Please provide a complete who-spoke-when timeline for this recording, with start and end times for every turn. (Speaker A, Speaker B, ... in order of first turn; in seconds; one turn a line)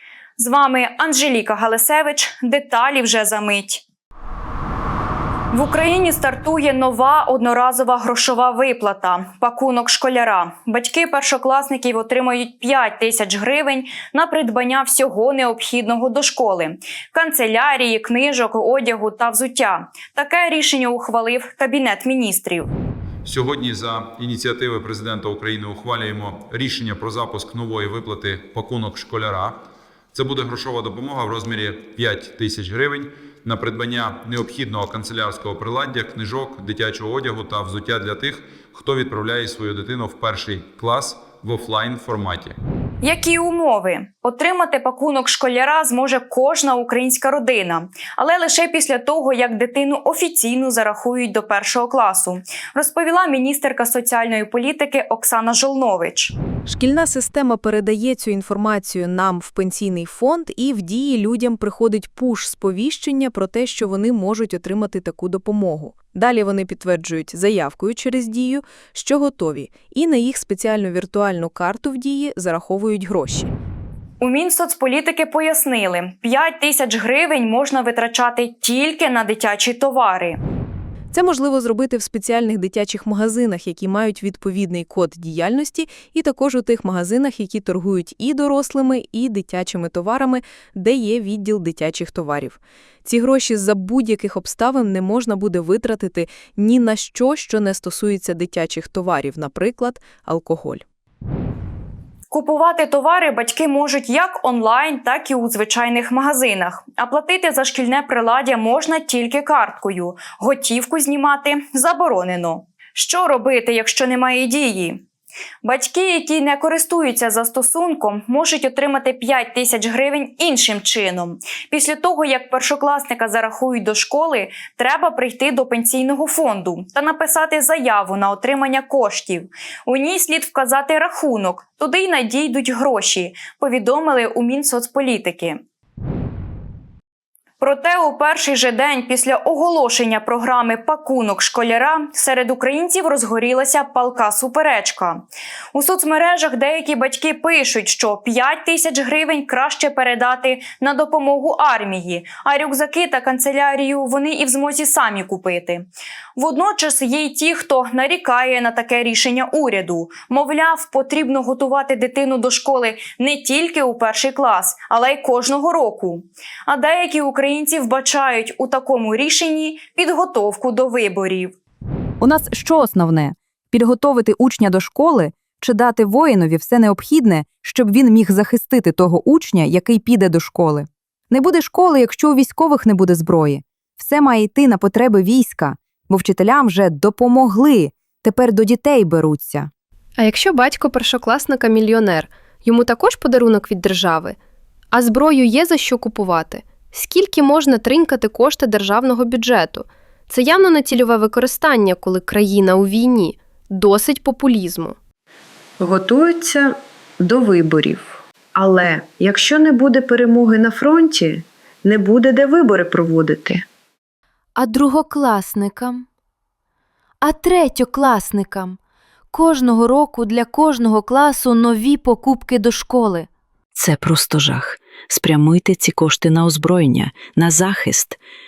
Speaker A: 0.4-3.8
Speaker A: 5.5-22.7
Speaker B: 23.2-42.6
Speaker A: 43.0-56.4
Speaker C: 56.7-73.5
Speaker A: 74.2-80.4
Speaker C: 81.1-100.8
Speaker A: 102.3-115.0
Speaker A: 115.6-135.6
Speaker A: 137.6-171.6
Speaker D: 172.2-189.7
Speaker E: 190.2-194.4
Speaker E: 194.9-205.0
Speaker F: 205.8-213.7
Speaker G: 214.6-216.1
Speaker G: 217.2-218.8
Speaker G: 219.3-223.3
Speaker H: 223.8-228.2